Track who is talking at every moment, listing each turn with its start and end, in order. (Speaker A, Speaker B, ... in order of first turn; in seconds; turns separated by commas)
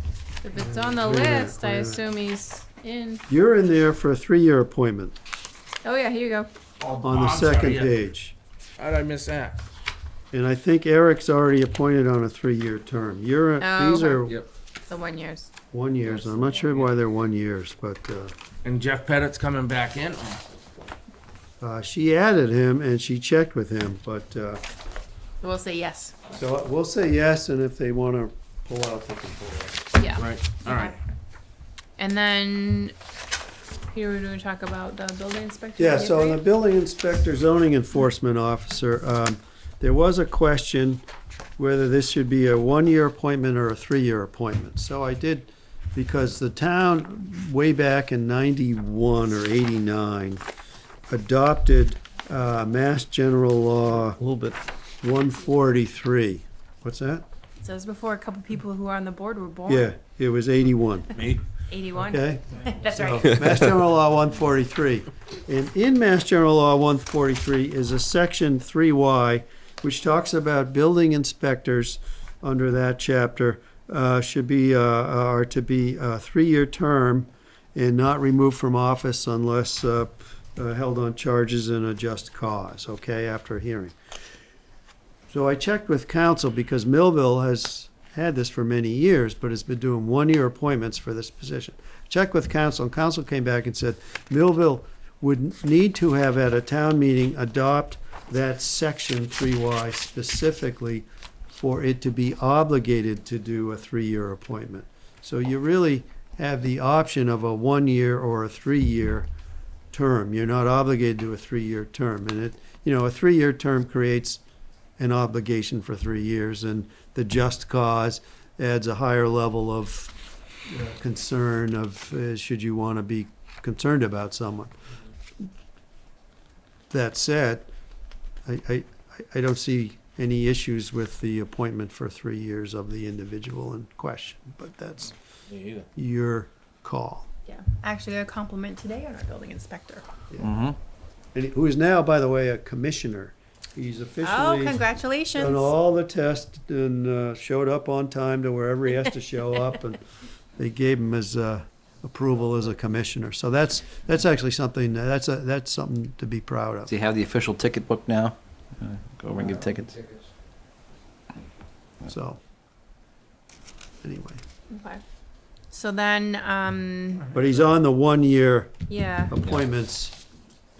Speaker A: 0.4-3.2, Speaker B: 0.6-2.0, Speaker B: 3.3-5.2, Speaker A: 5.8-6.5, Speaker C: 6.8-7.9, Speaker B: 7.0-8.3, Speaker C: 8.8-9.6, Speaker B: 10.3-14.4, Speaker A: 13.6-14.3, Speaker A: 14.9-15.5, Speaker B: 15.7-18.3, Speaker D: 16.2-16.6, Speaker C: 18.6-20.4, Speaker B: 21.6-24.6, Speaker A: 25.4-26.1, Speaker B: 26.3-29.9, Speaker A: 29.9-31.0, Speaker C: 30.2-30.9, Speaker A: 32.0-32.9, Speaker A: 33.9-36.4, Speaker B: 35.8-41.0, Speaker B: 41.6-50.4, Speaker B: 51.1-57.2, Speaker A: 57.6-59.9, Speaker B: 59.7-61.1, Speaker C: 61.1-61.4, Speaker A: 61.7-63.5, Speaker B: 62.1-84.0, Speaker B: 85.3-109.3, Speaker B: 109.9-114.4, Speaker B: 115.0-120.1, Speaker B: 120.7-124.7, Speaker B: 126.9-127.7, Speaker B: 128.4-135.1, Speaker B: 135.9-137.3, Speaker A: 137.5-140.0, Speaker D: 140.4-140.8, Speaker B: 141.3-144.8, Speaker A: 144.2-145.7, Speaker B: 145.3-150.0, Speaker B: 150.6-156.9, Speaker D: 156.9-160.1, Speaker B: 162.1-162.4, Speaker B: 164.0-164.4, Speaker A: 164.7-165.0, Speaker A: 165.7-167.3, Speaker B: 167.3-168.7, Speaker A: 168.9-169.3, Speaker B: 169.3-170.2